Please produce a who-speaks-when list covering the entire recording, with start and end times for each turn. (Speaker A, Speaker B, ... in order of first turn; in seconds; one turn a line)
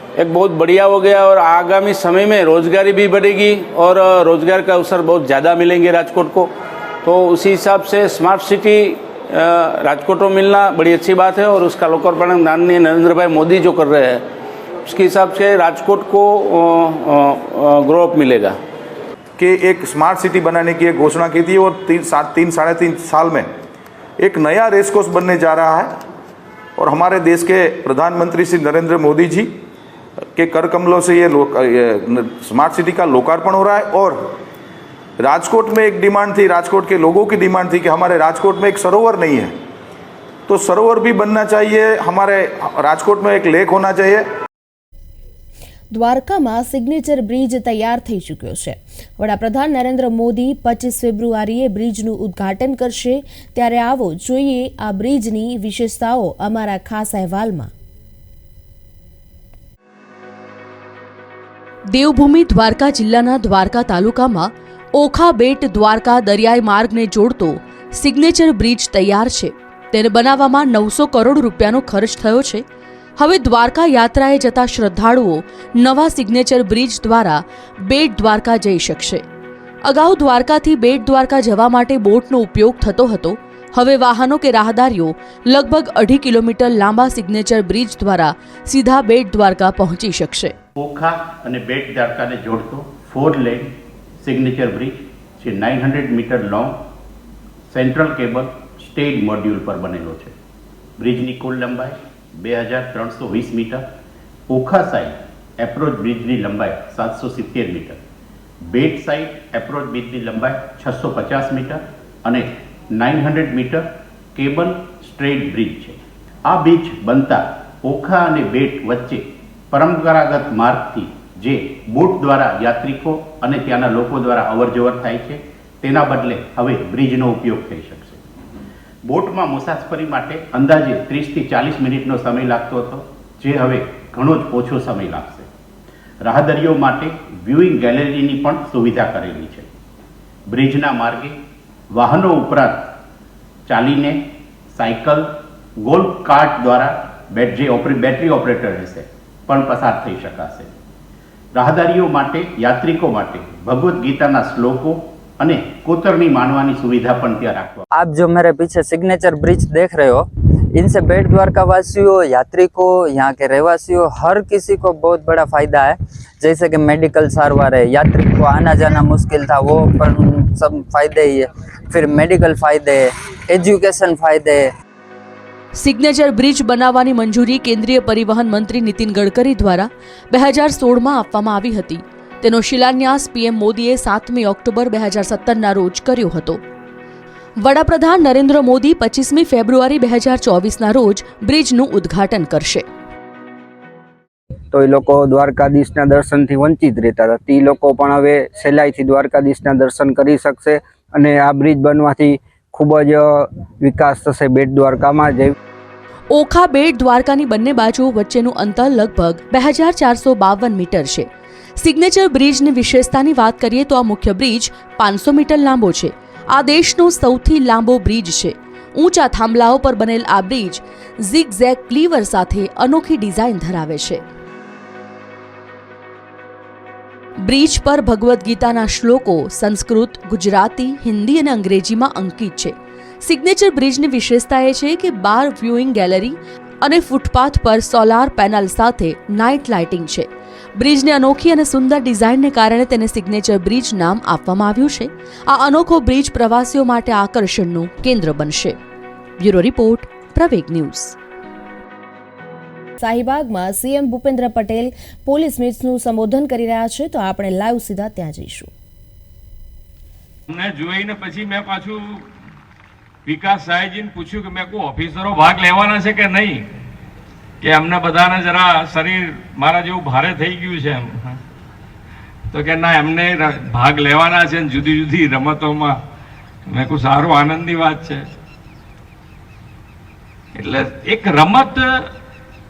Speaker A: 0.2-6.5
Speaker A: 7.0-14.2
Speaker A: 14.8-18.6
Speaker B: 19.4-23.5
Speaker B: 24.2-26.0
Speaker B: 26.8-29.6
Speaker B: 30.3-34.4
Speaker B: 35.2-39.5
Speaker B: 40.5-44.3
Speaker C: 45.9-57.7
Speaker D: 61.9-72.6
Speaker D: 73.2-79.2
Speaker D: 79.8-90.5
Speaker E: 90.8-96.8
Speaker E: 97.7-100.3
Speaker E: 101.0-103.8
Speaker E: 104.5-108.0
Speaker E: 108.7-128.2
Speaker E: 129.1-135.5
Speaker E: 136.2-139.7
Speaker E: 140.5-141.4
Speaker E: 141.9-142.8
Speaker E: 143.7-144.2
Speaker E: 144.7-145.3
Speaker E: 145.8-150.7
Speaker E: 151.6-157.8
Speaker F: 157.9-174.7
Speaker D: 175.8-186.6
Speaker D: 187.6-192.8
Speaker G: 194.7-205.5
Speaker D: 206.3-224.2
Speaker D: 227.4-248.8
Speaker D: 249.4-251.1
Speaker C: 253.0-258.7
Speaker H: 260.5-262.3
Speaker H: 263.2-266.7
Speaker H: 267.6-271.4
Speaker H: 272.5-276.0
Speaker H: 276.6-278.3
Speaker H: 280.5-282.1